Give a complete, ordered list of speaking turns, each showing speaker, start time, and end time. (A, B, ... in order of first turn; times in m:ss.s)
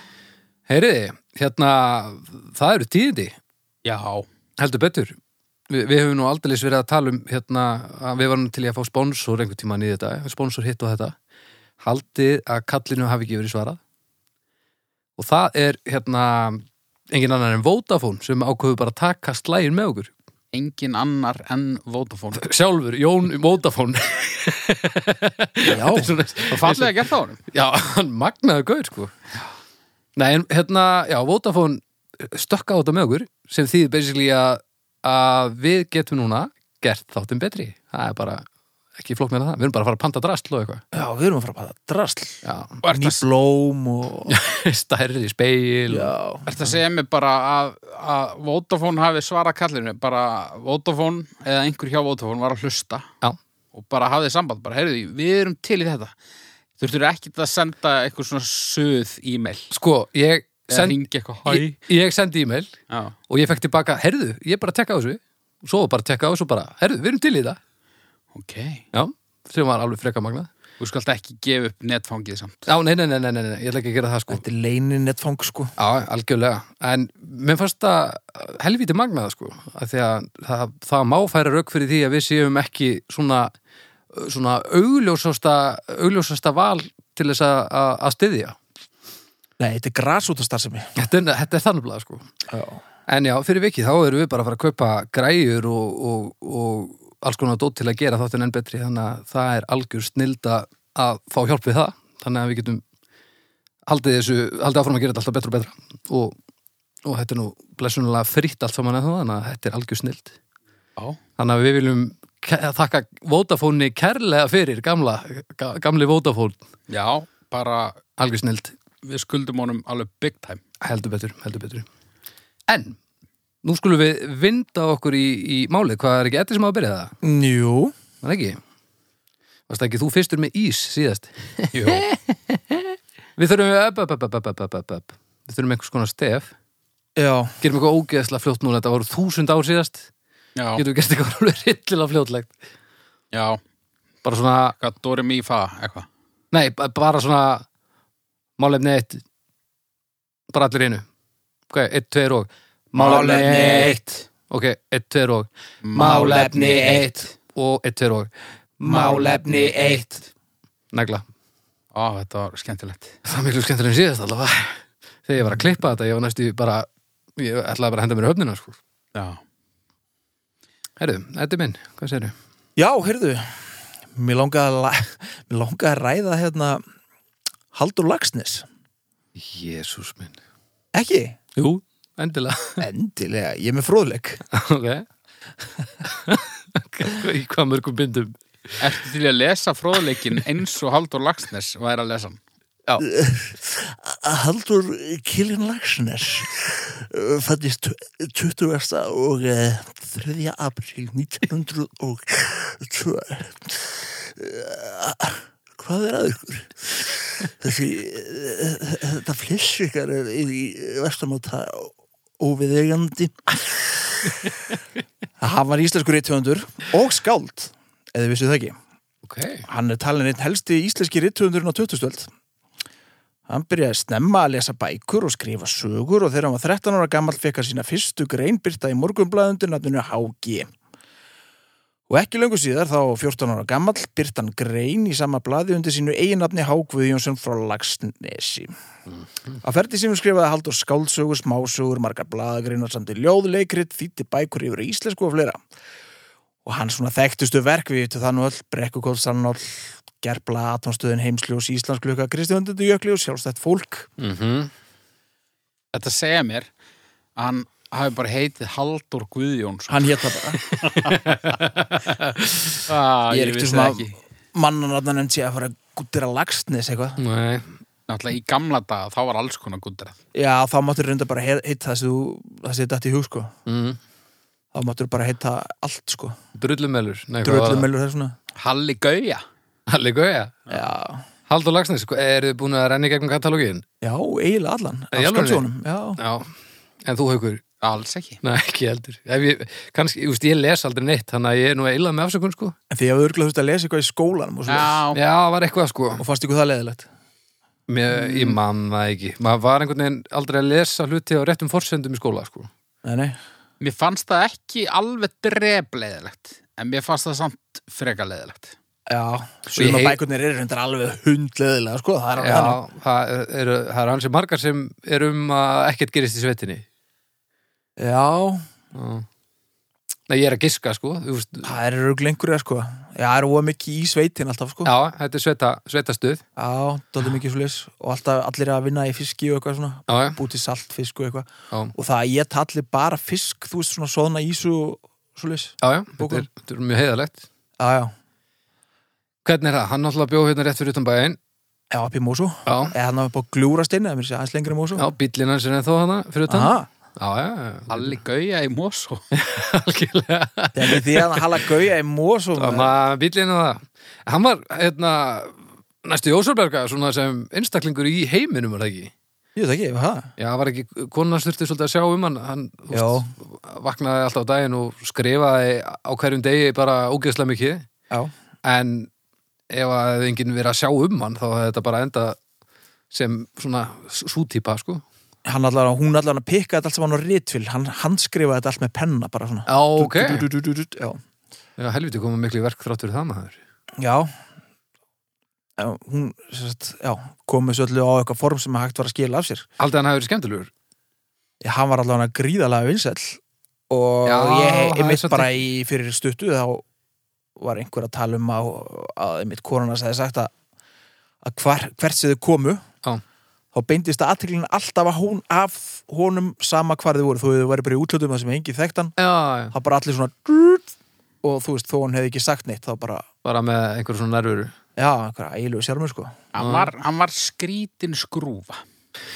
0:00.7-0:03.4 A
0:03.8-0:04.3 B
0:04.6-0:05.2 A
0:05.7-0:11.2 A
0:11.8-0:13.8 A
0:15.2-0:20.1 A
0:20.5-0:22.5 B
0:22.4-0:29.2 A
0:25.7-0:26.1 C
0:26.5-0:27.4 B
0:30.2-0:40.8 A
0:40.9-0:44.4 C
0:42.4-0:42.8 A
0:42.8-0:43.2 B
0:44.3-0:46.1 A
0:45.9-0:46.5 C
0:46.5-0:53.1 B
0:53.7-0:56.1 B
0:56.8-0:59.7 B
0:59.7-1:02.7 A
1:00.7-1:01.8 B
1:02.9-1:03.2 B
1:03.3-1:07.6 A
1:08.3-1:08.8 B
1:08.9-1:10.5 A
1:10.8-1:12.7 B
1:12.7-1:14.4 A
1:14.3-1:15.7 C
1:15.8-1:23.5 A
1:24.1-1:28.6 A
1:29.6-1:30.9 C
1:31.0-1:32.3 A
1:32.5-1:32.8 C
1:33.1-1:42.8 A
1:43.9-1:46.4 A
1:47.0-1:50.3 A
1:51.4-1:56.6 A
1:56.9-1:58.0 B
1:58.2-1:58.7 A
1:59.0-2:00.6 B
2:00.8-2:01.9 A
2:02.7-2:03.0 A
2:03.6-2:07.1 A
2:07.2-2:08.0 C
2:08.2-2:08.6 A
2:09.7-2:16.5 A
2:11.7-2:12.0 B
2:17.2-2:17.6 C
2:17.6-2:20.1 A
2:20.6-2:20.8 B
2:20.8-2:22.5 A
2:23.3-2:23.6 B
2:24.2-2:24.8 A
2:24.8-2:26.1 B
2:26.5-2:27.6 A
2:28.6-2:29.2 A
2:30.5-2:31.0 A
2:31.7-2:34.0 A
2:33.0-2:34.0 C
2:33.0-2:34.2 B
2:34.5-2:38.3 A
2:35.8-2:37.3 B
2:36.0-2:37.1 C
2:38.8-2:40.2 C
2:38.8-2:40.0 B
2:38.9-2:39.2 A
2:40.9-2:41.2 A
2:41.9-2:43.2 B
2:43.2-2:46.9 A
2:47.4-2:48.8 A
2:49.2-2:49.4 B
2:51.0-2:52.4 A
2:52.8-2:56.8 C
2:57.7-2:58.7 C
2:59.4-3:00.4 A
3:00.9-3:01.4 C
3:01.6-3:02.8 A
3:02.8-3:04.4 C
3:04.5-3:05.1 A
3:06.0-3:08.4 A
3:08.8-3:12.4 B
3:13.0-3:34.6 C
3:35.4-3:38.8 C
3:39.3-3:39.6 A
3:39.7-3:42.3 C
3:43.5-3:50.7 C
3:52.1-3:58.8 C
3:59.6-4:05.6 C
4:06.6-4:14.1 C
4:14.2-4:14.7 A
4:15.9-4:16.7 B
4:17.4-4:21.2 B
4:19.9-4:20.6 C
4:20.9-4:22.8 A
4:22.9-4:24.2 B
4:23.3-4:27.2 C
4:27.2-4:27.7 A
4:28.1-4:30.2 B
4:30.3-4:33.5 C
4:33.7-4:34.0 A
4:34.7-4:36.4 C
4:36.6-4:37.9 A
4:37.4-4:38.4 C
4:38.6-4:39.4 B
4:39.9-4:40.6 A
4:40.7-4:41.3 C
4:41.5-4:43.8 A
4:44.0-4:46.2 C
4:45.1-4:45.7 A
4:46.2-4:46.5 A
4:47.0-4:47.6 A
4:47.8-4:48.4 B
4:48.4-4:52.8 A
4:52.9-4:55.0 C
4:54.7-4:55.2 B
4:55.1-4:56.2 A
4:56.2-4:57.1 C
4:57.9-5:02.7 A
4:58.1-4:58.6 C
5:03.0-5:03.4 C
5:03.8-5:08.8 B
5:09.1-5:12.8 C
5:09.8-5:10.2 A
5:12.4-5:16.8 A
5:18.0-5:18.7 C
5:18.9-5:19.3 A
5:20.3-5:21.7 A
5:21.6-5:24.9 C
5:24.8-5:26.4 A
5:26.6-5:36.5 C
5:30.1-5:30.4 A
5:35.8-5:37.4 A
5:37.8-5:38.1 C
5:39.4-5:41.4 A
5:41.9-5:45.1 C
5:42.7-5:42.9 A
5:45.0-5:48.1 A
5:46.5-5:46.9 C
5:47.9-5:49.2 B
5:49.3-5:51.7 A
5:50.7-5:53.0 C
5:52.6-5:59.1 A
5:59.6-6:00.3 C
6:00.4-6:07.9 A
6:02.9-6:03.3 C
6:08.6-6:09.1 A
6:09.7-6:12.4 A
6:13.1-6:15.0 A
6:15.4-6:21.2 C
6:19.7-6:20.5 A
6:21.8-6:23.6 A
6:24.0-6:24.3 C
6:25.8-6:29.7 C
6:29.8-6:30.7 A
6:31.6-6:36.9 C
6:34.2-6:35.5 A
6:37.6-6:40.5 C
6:41.4-6:42.8 C
6:43.7-6:49.2 C
6:49.2-6:49.7 A
6:49.7-6:50.9 C
6:51.4-6:53.3 C
6:53.4-6:54.8 A
6:55.0-6:56.4 C
6:56.5-6:58.8 B
6:56.6-6:56.9 A